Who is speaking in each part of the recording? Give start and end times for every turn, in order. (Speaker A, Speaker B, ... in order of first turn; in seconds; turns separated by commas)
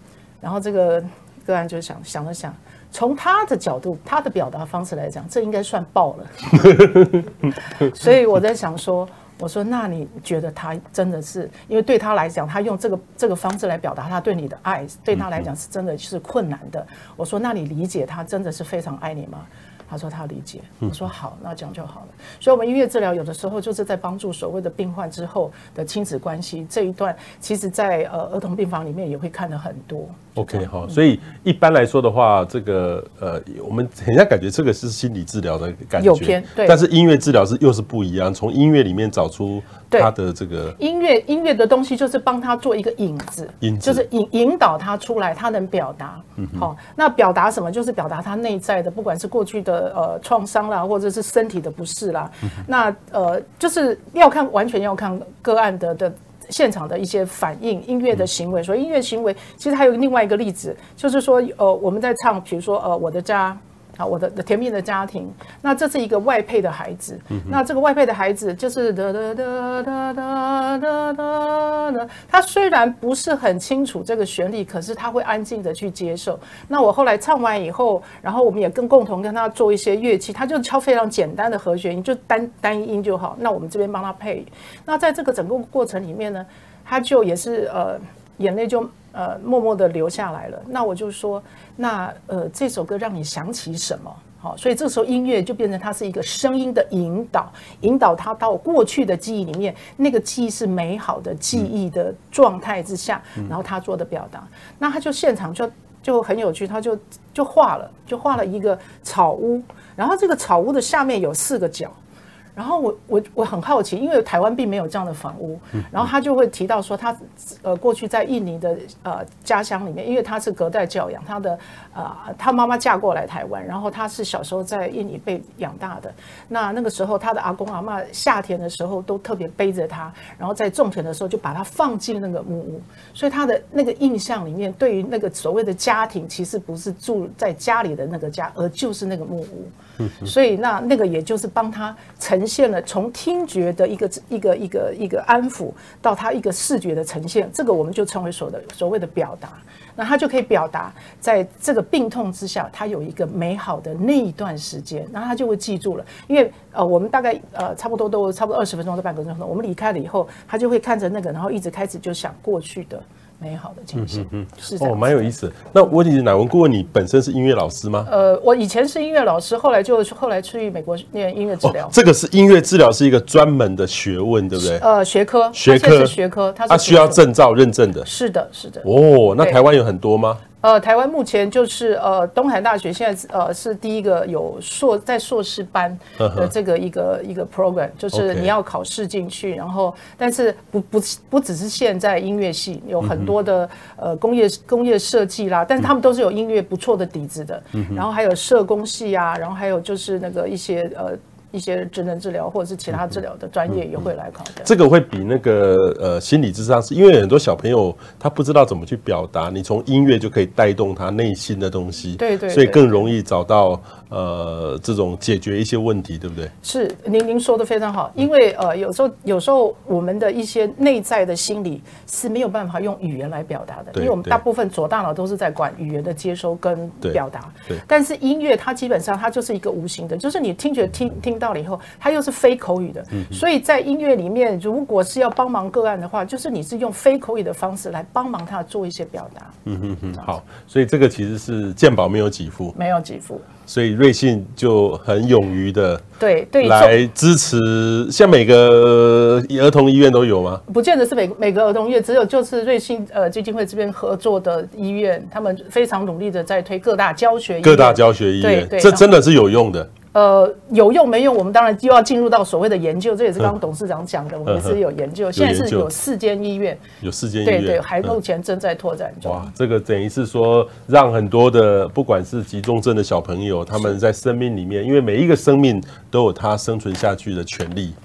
Speaker A: 0.4-30.7, Speaker B: 30.4-40.8, Speaker A: 36.0-36.8, Speaker A: 40.8-112.0, Speaker B: 43.6-44.0, Speaker B: 46.4-46.6, Speaker A: 112.5-165.3, Speaker B: 163.9-168.1, Speaker A: 168.1-171.9, Speaker B: 171.6-174.8, Speaker A: 174.6-177.2, Speaker B: 175.5-176.1, Speaker B: 176.7-178.1, Speaker A: 178.1-178.9, Speaker B: 178.8-180.4, Speaker A: 180.6-204.7, Speaker B: 186.2-186.5, Speaker B: 188.1-188.5, Speaker B: 204.6-216.5, Speaker A: 212.2-213.1, Speaker A: 216.6-239.6, Speaker B: 223.9-224.4, Speaker B: 227.0-227.8, Speaker B: 239.7-242.7, Speaker A: 242.7-243.4, Speaker B: 243.7-246.0, Speaker A: 246.2-247.0, Speaker B: 246.6-250.6, Speaker A: 250.7-259.1, Speaker B: 257.6-259.9, Speaker A: 260.1-266.8, Speaker B: 264.5-264.8, Speaker B: 265.3-265.9, Speaker B: 267.0-268.1, Speaker A: 267.4-269.5, Speaker B: 269.2-278.0